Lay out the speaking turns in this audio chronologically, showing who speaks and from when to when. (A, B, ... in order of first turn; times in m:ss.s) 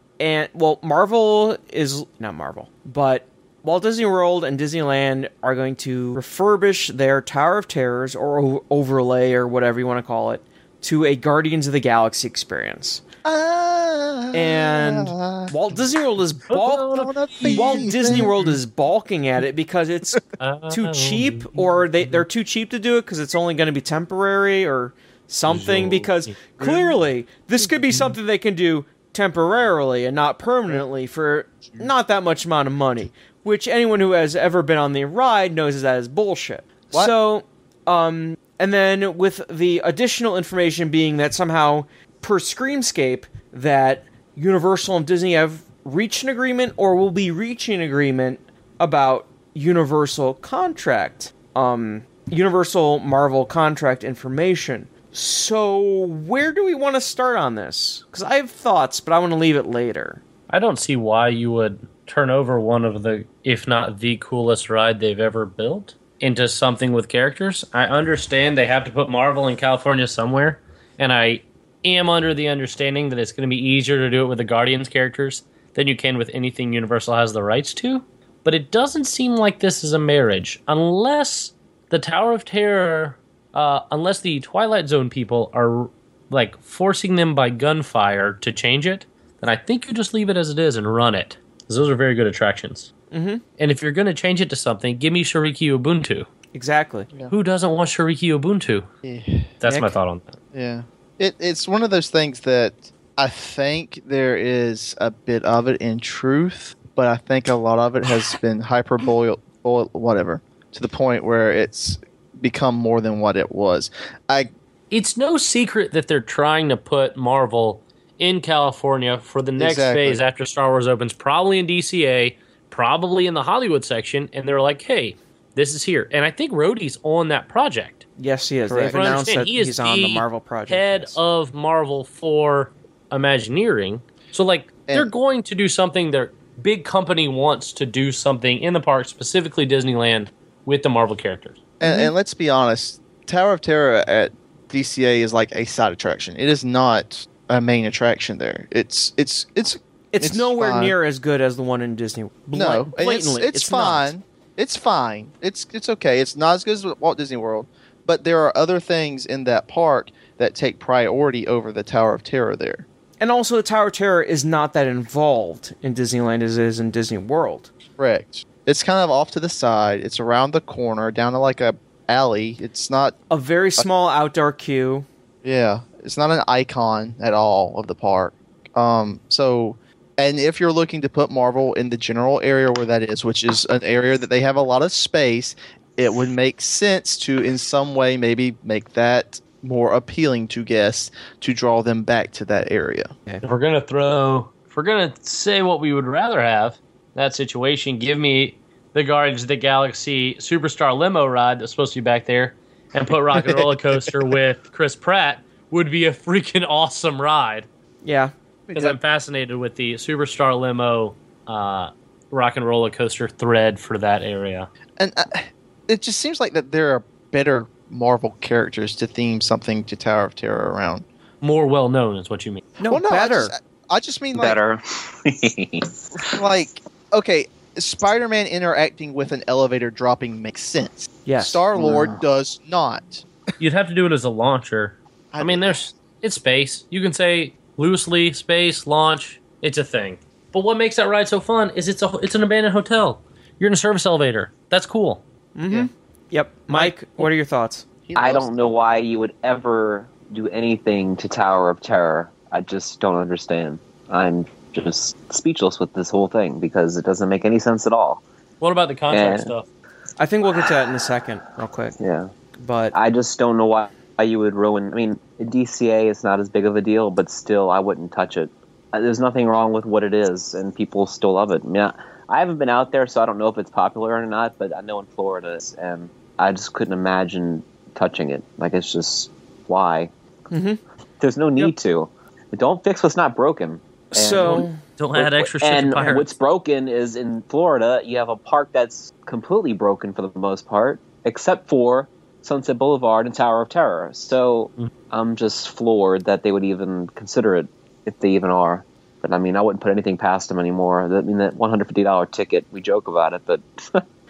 0:00.2-0:13.0 A
0:13.2-0:15.5 B
0:14.3-1:00.2 A
0:16.5-0:18.3 C
0:16.8-0:18.6 B
0:20.4-0:22.2 C
0:25.5-0:26.3 C
1:00.5-1:32.9 C
1:33.1-1:33.4 A
1:33.6-1:36.3 C
1:36.5-1:37.1 A
1:37.3-1:38.9 C
1:39.0-1:39.5 B
1:39.6-1:40.4 C
1:39.6-1:39.9 A
1:40.5-1:54.5 B
1:54.9-2:08.0 C
1:59.6-2:00.2 B
2:08.2-2:11.2 A
2:08.7-2:09.2 B
2:08.8-2:21.6 C
2:21.8-2:30.9 B
2:21.8-2:22.1 A
2:30.1-2:34.1 A
2:32.5-2:42.8 B
2:43.2-2:47.7 A
2:48.0-2:53.1 B
2:53.3-2:55.1 A
2:55.4-3:13.1 B
3:13.4-3:27.6 C
3:23.3-3:23.7 B
3:28.0-3:28.3 A
3:28.7-3:29.0 B
3:28.7-3:34.7 C
3:35.0-3:41.0 B
3:41.4-3:42.6 C
3:42.8-3:43.5 A
3:42.9-3:44.6 B
3:44.4-3:46.1 D
3:46.2-3:53.2 B
3:51.2-3:51.6 A
3:51.8-3:52.2 D
3:53.6-4:05.2 C
3:55.3-3:55.8 B
4:05.6-4:07.8 A
4:08.0-4:08.6 B
4:08.2-4:18.2 D
4:18.6-4:19.6 C
4:19.1-4:19.5 D
4:20.2-4:22.0 A
4:22.0-4:22.3 D
4:22.6-4:22.9 A
4:22.9-4:40.1 D
4:40.5-4:40.8 A
4:41.2-5:04.0 D
4:44.1-4:44.8 A
4:44.4-4:46.3 C